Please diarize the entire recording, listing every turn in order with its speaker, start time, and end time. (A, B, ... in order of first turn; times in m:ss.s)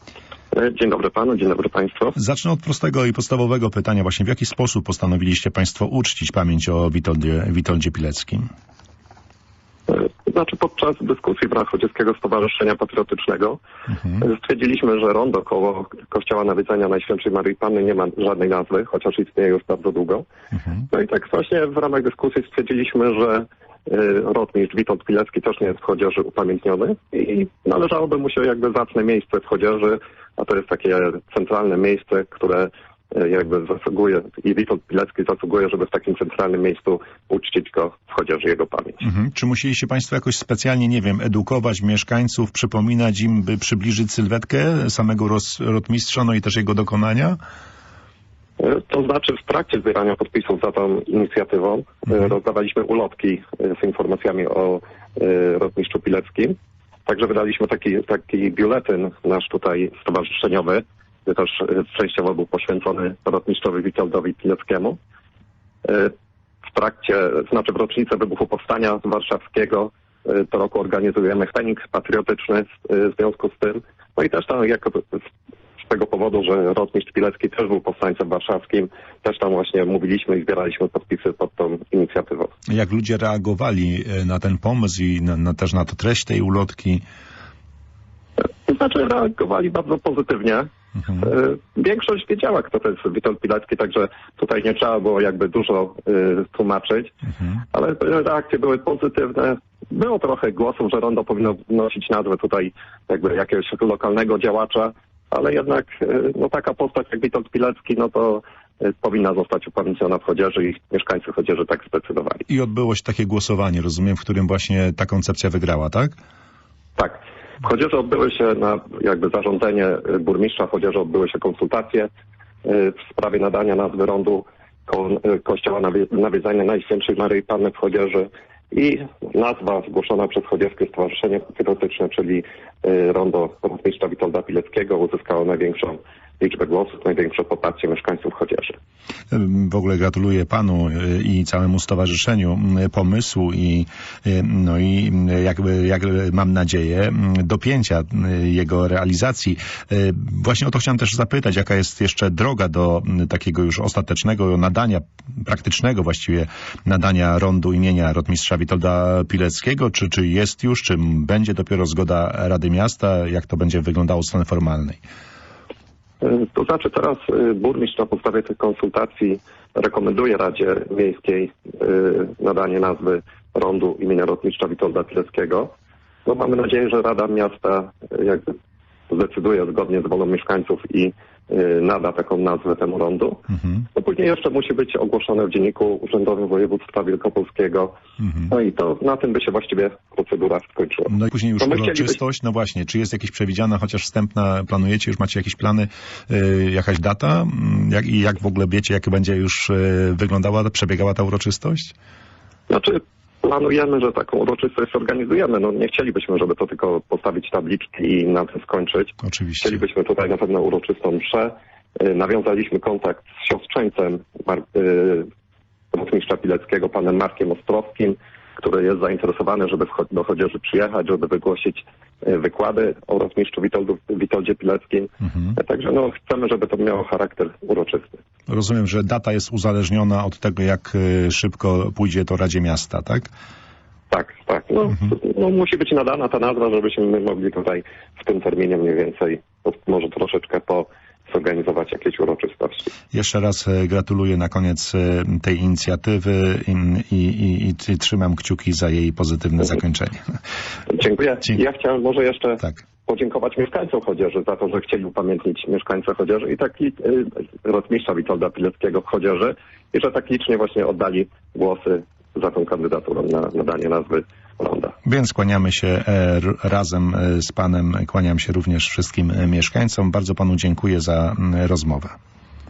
0:00.5-0:02.2 A
0:02.2-0:08.5 B
0:09.9-0:13.6 A
0:14.1-0:20.3 A
0:20.9-0:39.0 A
0:39.0-0:47.4 B
0:48.6-1:05.0 A
1:05.8-1:06.1 A
1:06.7-1:15.2 A
1:15.8-1:22.5 A
1:22.7-1:27.0 B
1:28.4-1:37.1 A
1:37.7-1:52.5 A
1:52.5-1:56.1 B
1:57.0-2:02.1 A
2:02.6-2:18.8 A
2:19.3-2:45.0 B
2:46.2-2:55.7 A
2:56.2-2:58.5 A
2:59.1-3:08.0 A
3:08.2-3:08.5 B
3:08.5-3:12.2 A
3:11.1-3:21.9 B
3:22.7-3:35.3 A
3:29.3-3:29.7 B
3:35.9-3:48.2 A
3:48.5-3:53.3 B
3:54.1-4:02.9 A
4:03.1-4:10.2 B
4:10.9-4:25.0 A
4:25.0-4:32.2 B